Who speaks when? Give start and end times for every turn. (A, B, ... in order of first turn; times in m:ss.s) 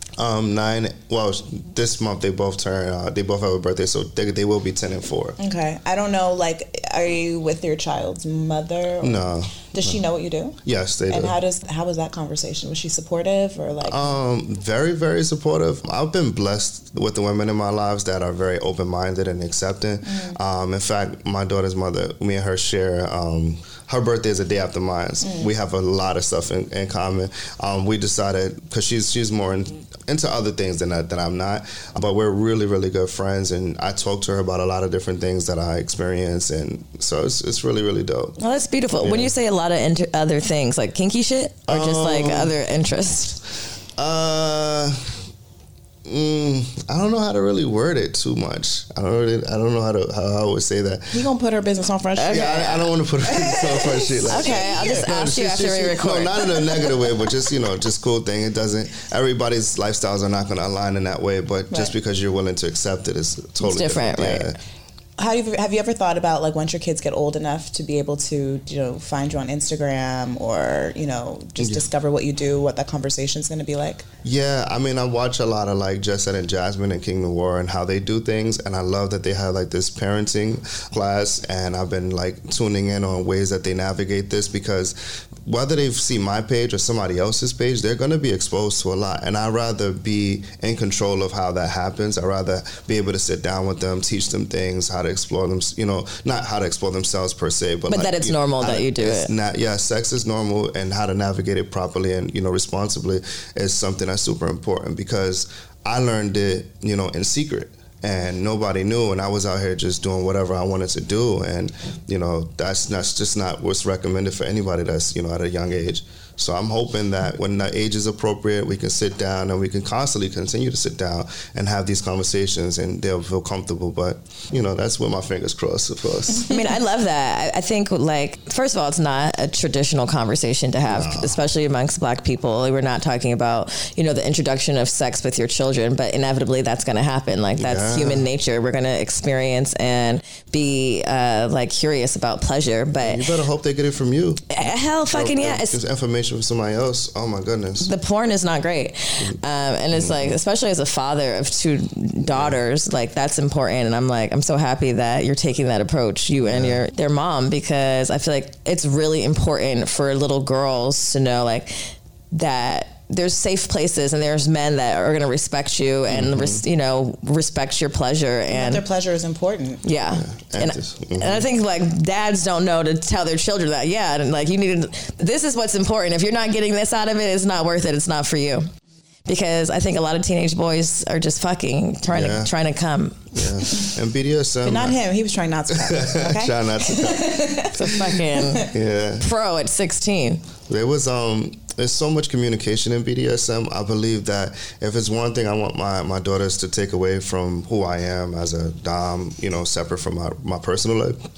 0:00.2-0:05.4 A
0:05.4-0:14.0 B
0:09.0-0:10.0 A
0:10.6-0:11.4 A
0:13.8-0:38.4 A
0:20.1-0:20.4 B
0:25.2-0:25.5 B
0:38.4-0:43.4 C
0:39.0-0:39.3 A
0:41.7-0:42.6 A
0:44.0-0:45.2 A
0:46.0-0:51.3 A
0:51.1-0:52.7 B
0:52.2-0:52.8 C
0:52.2-1:04.6 A
0:53.2-0:55.1 B
0:54.3-0:56.9 C
1:03.6-1:04.5 C
1:05.2-1:14.1 B
1:11.6-1:11.9 A
1:14.2-2:06.5 A
1:37.9-1:39.3 C
2:06.5-2:23.2 C
2:10.9-2:11.4 A
2:17.6-2:18.3 A
2:23.0-2:24.4 A
2:24.5-2:25.8 C
2:25.1-2:27.9 A
2:27.8-2:48.8 C
2:29.9-2:30.4 A
2:32.3-2:32.6 A
2:36.5-2:36.8 A
2:46.1-2:46.6 A
2:48.5-2:49.8 B
2:49.8-2:58.7 C
2:50.1-2:51.5 A
2:59.3-3:03.4 C
3:02.1-3:02.5 A
3:03.3-3:05.0 A
3:04.6-3:08.7 B
3:05.8-3:09.3 A
3:07.7-3:08.6 C
3:09.2-3:10.4 C
3:10.7-3:21.2 A